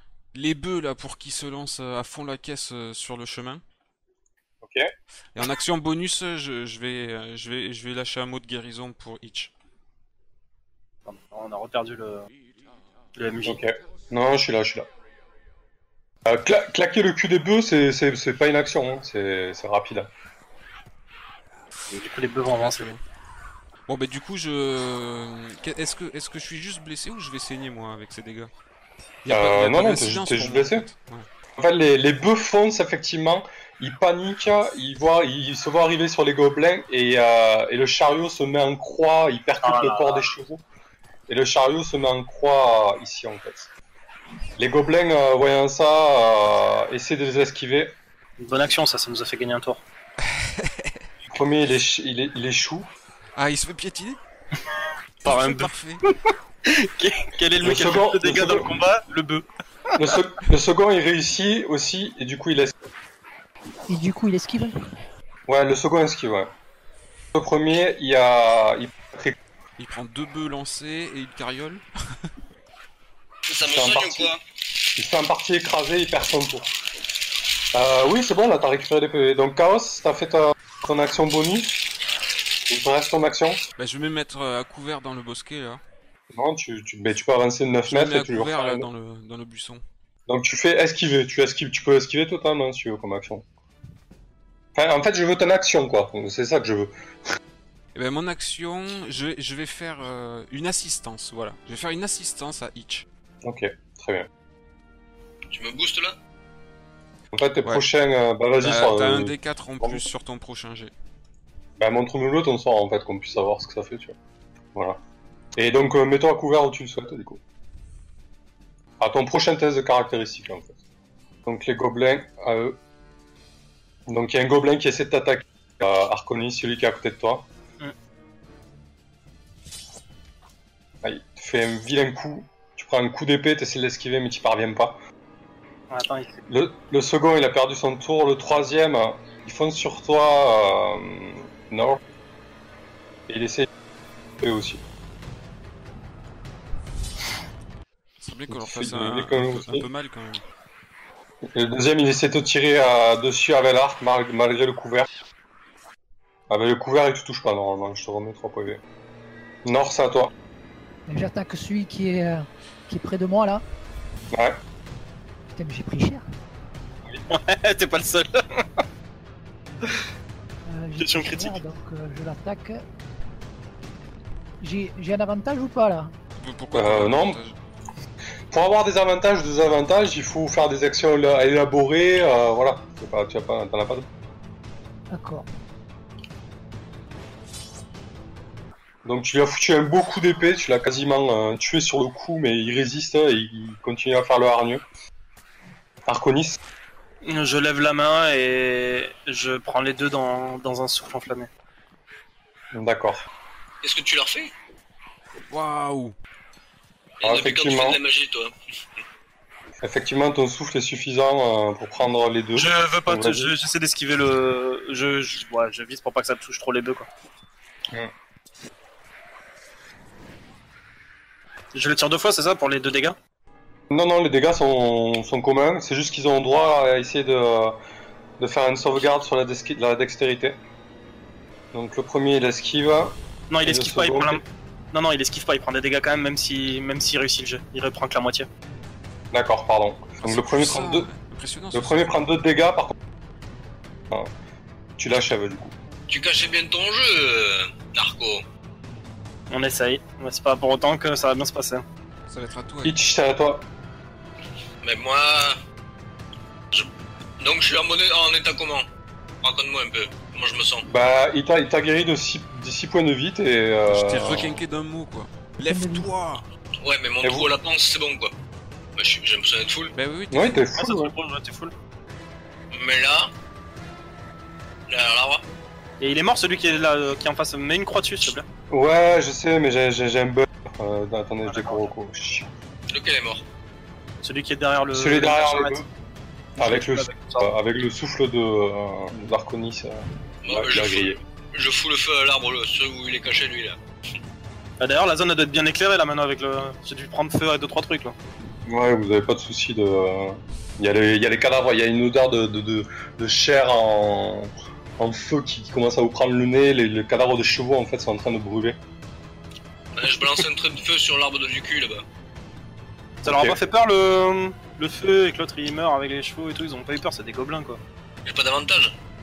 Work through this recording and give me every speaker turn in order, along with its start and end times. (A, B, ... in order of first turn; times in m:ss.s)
0:00.3-0:03.6 A
0:04.6-0:04.9 B
0:05.3-0:09.5 A
0:11.0-0:12.3 C
0:13.2-0:13.6 C
0:13.4-0:14.9 B
0:16.2-0:20.1 B
0:21.9-0:22.9 C
0:22.5-0:23.0 A
0:23.9-0:28.5 A
0:29.2-0:31.4 A
0:29.3-0:30.9 B
0:31.6-0:40.6 B
0:39.6-0:40.3 C
0:41.3-0:43.7 B
0:44.6-0:48.0 B
0:48.4-0:49.8 C
0:50.4-0:50.9 A
0:51.3-0:52.9 B
0:53.4-0:54.2 A
0:55.2-0:56.0 A
0:55.2-0:56.1 C
0:56.7-0:59.4 C
0:57.6-0:58.7 B
1:00.0-1:02.7 B
1:03.9-1:04.7 D
1:05.5-1:06.5 B
1:07.3-1:09.4 B
1:09.8-1:11.8 A
1:13.5-1:14.4 E
1:13.6-1:14.3 B
1:15.0-1:16.7 B
1:17.7-1:21.8 B
1:22.7-1:23.6 B
1:23.8-1:25.8 A
1:26.3-1:28.9 B
1:27.9-1:29.8 A
1:30.3-1:33.4 B
1:34.8-1:36.9 B
1:37.9-1:43.0 A
1:43.4-1:44.3 B
1:45.5-1:46.2 E
1:47.3-1:50.0 B
1:48.6-1:50.9 A
1:51.8-1:54.2 B
1:54.7-1:55.0 B
1:55.6-1:57.4 B
1:59.0-2:00.8 B
2:01.4-2:02.8 B
2:04.1-2:07.5 B
2:11.0-2:15.0 B
2:15.9-2:16.3 C
2:16.5-2:22.0 B
2:23.3-2:23.7 B
2:24.4-2:24.8 B
2:28.2-2:30.4 A
2:28.5-2:29.9 B
2:31.5-2:35.1 B
2:36.5-2:38.8 B
2:39.6-2:40.3 B
2:41.1-2:43.6 D
2:44.3-2:44.6 B
2:45.6-2:46.2 D
2:47.3-2:48.6 C
2:50.6-2:52.8 D
2:51.0-2:51.6 C
2:54.6-2:56.1 D
2:56.4-2:57.6 A
2:56.7-2:57.4 B
2:58.5-3:04.1 B
3:05.1-3:05.4 D
3:09.0-3:14.8 B
3:16.1-3:16.6 B
3:17.2-3:21.5 C
3:22.7-3:23.3 B
3:23.8-3:24.5 E
3:25.5-3:26.1 A
3:27.2-3:28.5 E
3:27.2-3:28.0 B
3:29.8-3:33.6 B
3:32.5-3:37.1 C
3:41.7-3:43.2 C
3:43.9-3:47.8 B
3:46.4-3:46.8 C
3:48.4-3:50.6 B
3:48.9-3:49.2 C
3:51.7-3:54.4 B
3:53.5-3:58.5 C
3:59.3-4:01.1 B
4:00.2-4:02.2 A
4:01.7-4:02.9 B
4:05.0-4:05.7 B
4:06.1-4:08.4 E
4:09.5-4:11.8 C
4:12.3-4:13.0 A
4:12.8-4:13.7 B
4:14.8-4:15.6 E
4:16.7-4:18.9 E
4:19.4-4:20.8 E
4:20.8-4:24.6 B
4:23.9-4:26.4 A
4:25.6-4:26.1 D
4:26.8-4:28.3 E
4:27.2-4:27.5 B
4:29.0-4:29.9 E
4:29.9-4:30.6 A
4:30.3-4:31.1 B
4:30.8-4:31.7 C
4:32.7-4:33.3 E
4:34.9-4:35.4 E
4:36.0-4:38.4 C
4:38.7-4:42.5 B
4:41.4-4:41.9 C
4:42.9-4:43.4 E
4:44.2-4:45.8 C
4:44.9-4:45.9 B
4:46.6-4:47.5 C
4:46.6-4:51.2 B
4:50.4-4:53.8 E
4:54.8-4:58.1 C
4:58.6-5:08.8 B
5:10.0-5:12.0 E
5:13.2-5:17.8 C
5:13.2-5:13.6 B
5:18.2-5:19.0 E